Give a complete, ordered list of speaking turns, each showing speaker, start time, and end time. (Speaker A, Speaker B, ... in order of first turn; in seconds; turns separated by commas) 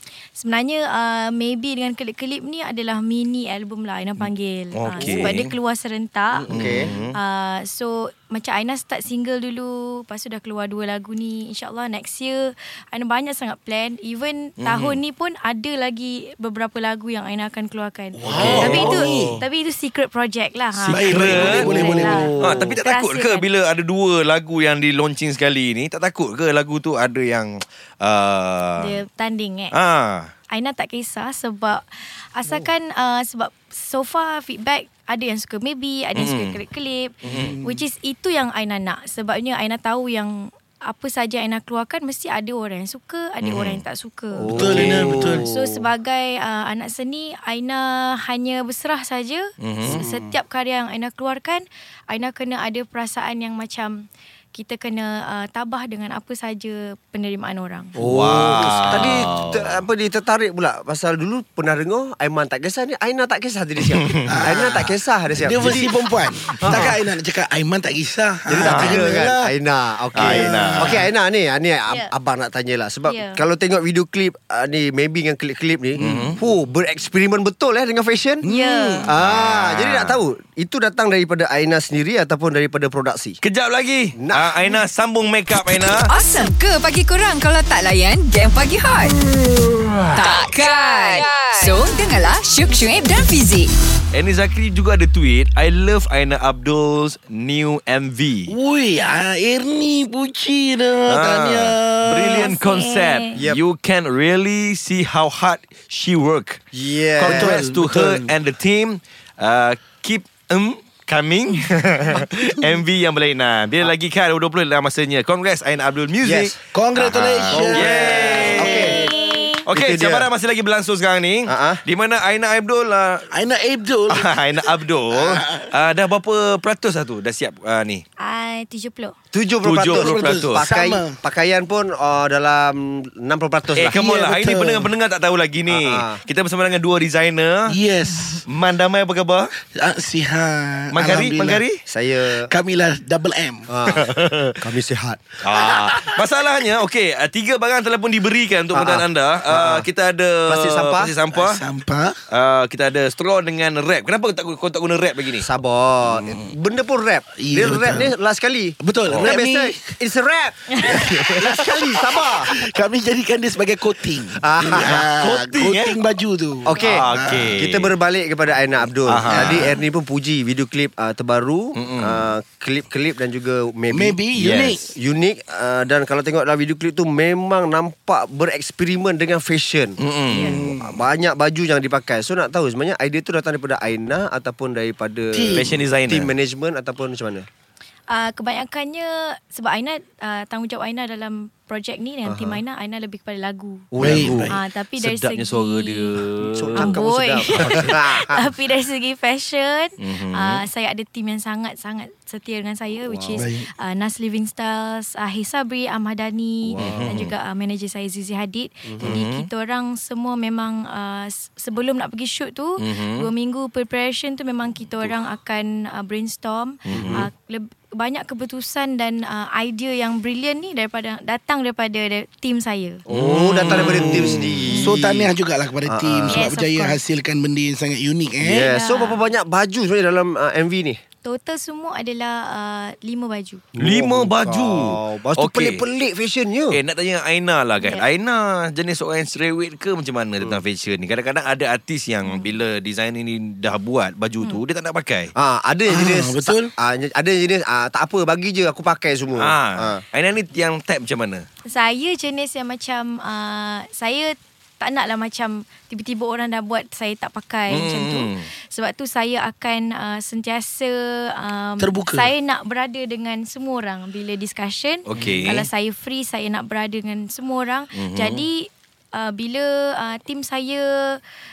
Speaker A: 0.4-6.5, Speaker B: 4.2-5.5, Speaker C: 6.3-7.0, Speaker D: 6.5-6.9, Speaker B: 6.5-7.2, Speaker A: 7.1-23.5, Speaker B: 14.6-15.0, Speaker C: 18.1-19.4, Speaker B: 18.3-19.3, Speaker D: 18.4-19.4, Speaker B: 20.7-28.9, Speaker C: 20.9-22.4, Speaker D: 21.3-22.8, Speaker A: 28.8-29.7, Speaker B: 29.7-30.3, Speaker A: 30.5-57.9, Speaker B: 36.2-36.6, Speaker C: 37.2-37.8, Speaker B: 37.2-37.6, Speaker B: 43.4-43.8, Speaker D: 44.4-45.9, Speaker C: 44.5-45.5, Speaker B: 49.6-50.0, Speaker D: 49.8-50.4, Speaker D: 58.0-67.0, Speaker B: 58.0-59.8, Speaker C: 64.3-69.5, Speaker D: 68.5-78.5, Speaker B: 68.6-69.2, Speaker C: 70.2-71.1, Speaker B: 70.2-71.1, Speaker A: 73.1-73.4, Speaker C: 76.0-76.3, Speaker B: 76.0-76.4, Speaker C: 78.4-79.1, Speaker A: 78.4-79.1, Speaker D: 79.1-83.4, Speaker B: 79.2-80.2, Speaker B: 83.4-86.1, Speaker D: 84.2-84.6, Speaker E: 86.0-89.2, Speaker E: 90.1-93.7, Speaker B: 94.1-98.5, Speaker C: 98.5-102.5, Speaker B: 101.1-106.7, Speaker A: 102.3-103.4, Speaker D: 106.7-107.6, Speaker B: 107.2-119.0, Speaker C: 107.2-108.3, Speaker D: 116.2-116.5, Speaker C: 116.7-119.2, Speaker D: 117.5-119.0, Speaker A: 118.4-119.6, Speaker B: 119.7-123.3, Speaker D: 119.7-120.3, Speaker D: 121.5-121.8, Speaker C: 123.3-124.3, Speaker B: 124.1-128.0, Speaker C: 125.1-125.7, Speaker A: 128.2-129.1, Speaker D: 129.3-134.0, Speaker B: 129.6-130.6, Speaker C: 129.9-131.2, Speaker B: 133.8-137.7, Speaker C: 133.8-134.9, Speaker D: 135.7-136.2, Speaker C: 137.7-138.4, Speaker B: 138.5-139.5, Speaker C: 139.8-141.7, Speaker B: 140.9-141.8, Speaker D: 141.9-142.5, Speaker C: 142.5-143.7, Speaker D: 143.7-145.3, Speaker B: 143.9-144.6, Speaker B: 145.4-151.6, Speaker D: 148.7-149.9, Speaker D: 150.5-151.2, Speaker C: 151.3-152.2, Speaker B: 152.3-155.5, Speaker D: 155.4-162.6, Speaker C: 157.4-158.1, Speaker C: 158.8-159.8, Speaker B: 159.1-159.4, Speaker C: 160.8-167.6, Speaker D: 164.4-165.1, Speaker B: 164.9-166.0, Speaker D: 166.7-187.5, Speaker B: 166.8-167.9, Speaker B: 169.1-169.8, Speaker B: 171.8-172.3, Speaker C: 173.9-174.9, Speaker B: 174.4-174.8, Speaker B: 180.0-180.5, Speaker C: 180.3-181.0, Speaker C: 185.3-185.8, Speaker B: 185.5-186.3, Speaker A: 188.1-193.9, Speaker D: 192.3-192.6, Speaker D: 193.9-194.6, Speaker C: 194.0-194.6, Speaker B: 194.0-194.3, Speaker A: 194.4-196.2, Speaker B: 195.0-197.0, Speaker D: 196.6-198.5, Speaker A: 196.8-223.0, Speaker B: 200.0-200.6, Speaker D: 203.1-203.5, Speaker C: 203.3-203.7, Speaker D: 206.7-207.2, Speaker B: 206.8-207.3, Speaker D: 208.9-209.2, Speaker B: 209.0-209.5, Speaker B: 212.8-213.3, Speaker B: 216.9-217.3, Speaker D: 216.9-217.3, Speaker D: 223.1-225.3, Speaker B: 223.1-224.7, Speaker C: 223.7-228.7, Speaker A: 224.7-224.9, Speaker D: 225.9-226.5, Speaker A: 226.3-227.0, Speaker D: 228.4-231.0, Speaker A: 228.7-229.2, Speaker A: 231.2-233.6, Speaker D: 233.8-236.8, Speaker B: 233.8-235.8, Speaker B: 236.7-245.3, Speaker A: 242.2-242.6, Speaker D: 245.4-250.0, Speaker C: 245.9-246.7, Speaker B: 249.4-251.4, Speaker A: 251.7-271.2, Speaker B: 257.7-258.5, Speaker C: 261.8-262.3, Speaker B: 265.1-265.7, Speaker B: 268.0-268.5